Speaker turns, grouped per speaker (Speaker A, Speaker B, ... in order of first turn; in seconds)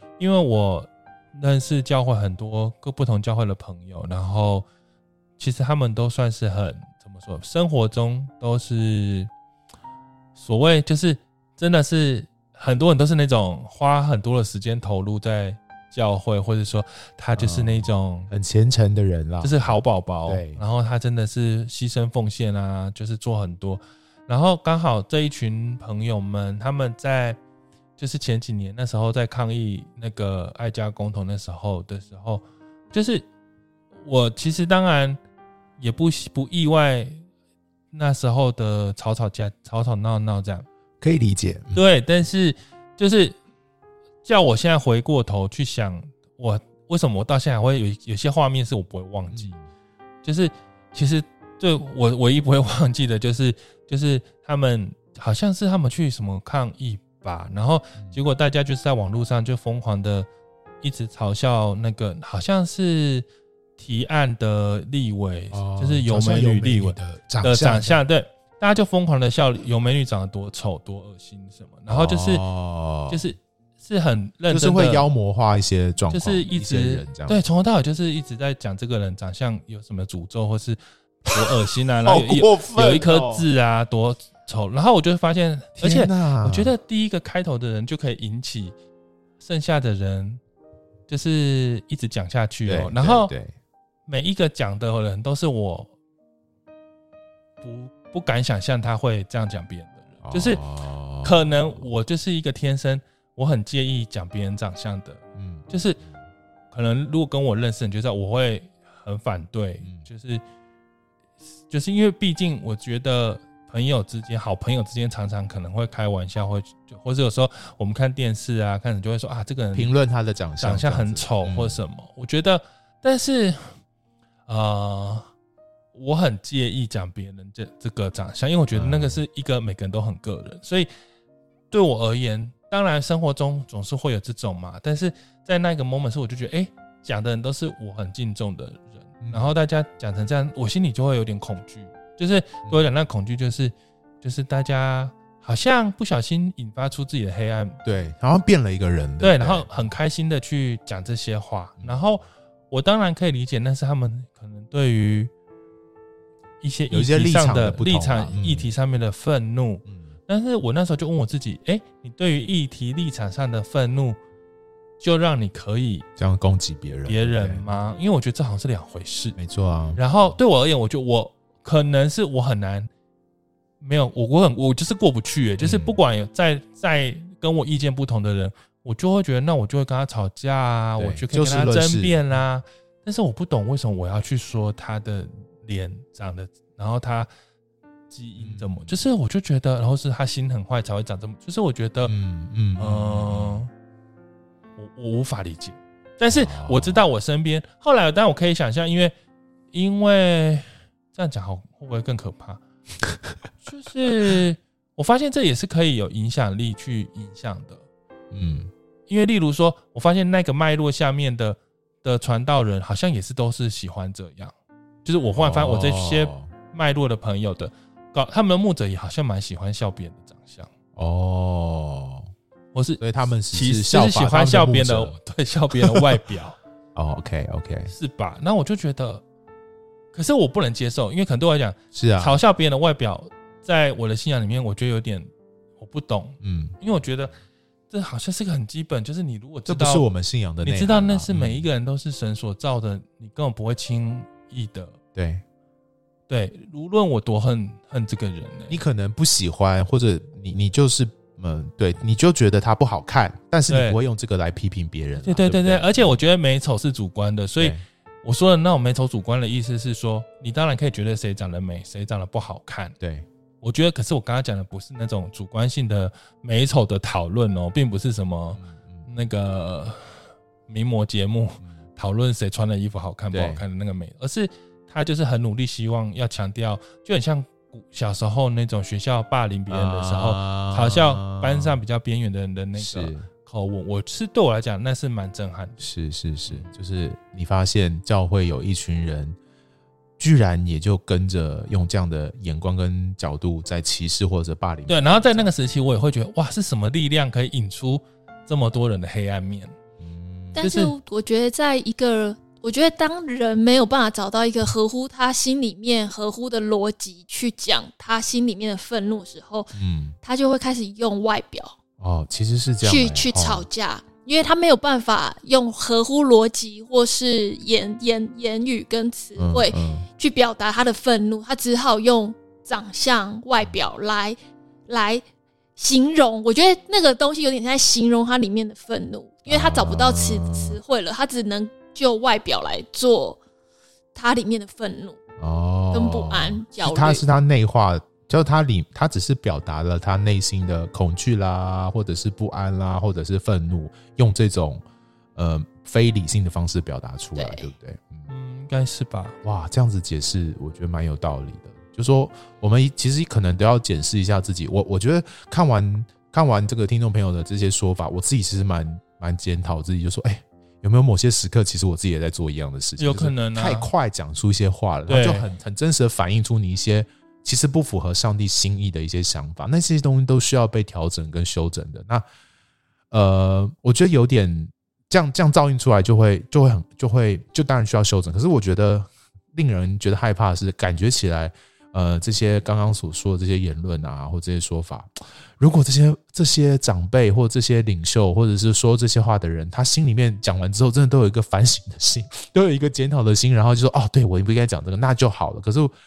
Speaker A: 0.2-4.7, 5.4-9.3, 10.4-18.3, 19.4-27.4, 28.0-33.2, 34.0-35.2, 35.8-37.2, 37.9-40.7, 41.7-43.4, 44.2-49.5, 50.2-60.3, 60.8-63.2, 63.8-72.4, 73.1-75.0, 76.1-88.7, 89.4-90.4, 91.1-93.3, 94.1-95.9, 97.6-100.6, 101.2-106.0, 106.7-110.4, 111.7-119.9, 120.6-123.8, 124.5-125.3, 125.9-130.9, 131.7-147.8, 149.2-155.3, 156.6-164.2, 165.0-166.1, 167.1-169.4, 170.0-172.9, 173.8-187.3, 188.1-192.1, 192.8-193.7, 194.8-199.1, 199.7-202.6, 203.6-207.8, 209.1-214.5, 215.1-220.7, 222.7-226.6, 227.9-229.2, 230.1-235.3, 235.8-237.4, 237.9-240.1, 240.6-245.0, 246.3-248.8, 253.7-254.0, 255.2-262.9, 263.6-285.8, 294.9-299.8, 300.6-300.9, 348.3-349.4, 363.0-363.9, 365.1-365.5
Speaker B: 17.4-20.6, 41.0-41.8, 49.3-49.6, 65.5-68.0, 71.9-73.2, 74.5-77.4, 82.0-83.5, 85.8-86.7, 92.7-93.5, 100.2-101.9, 105.4-105.7, 119.7-121.8, 128.7-129.2, 139.2-139.5, 147.8-149.7, 156.9-158.7, 166.2-167.6, 169.4-170.0, 175.6-176.0, 181.0-182.2, 188.4-189.0, 192.1-193.6, 196.3-197.0, 208.3-208.7, 215.4-216.5, 221.0-222.3, 223.0-225.2, 225.7-226.1, 226.9-227.9, 231.9-232.4, 236.4-236.8, 239.7-241.7, 245.2-245.4, 248.7-256.2, 263.0-263.3, 268.6-269.1, 273.3-273.6, 279.7-281.8, 282.8-283.3, 285.8-289.4, 290.2-295.6, 300.0-300.6, 309.7-310.2, 312.0-313.7, 319.4-320.1, 329.5-330.8, 335.4-344.8, 345.4-348.3, 349.4-372.2, 373.1-395.9
Speaker C: 300.6-311.8, 312.8-324.4, 324.9-325.2, 325.8-333.4, 334.1-335.2, 335.9-337.2, 347.4-347.7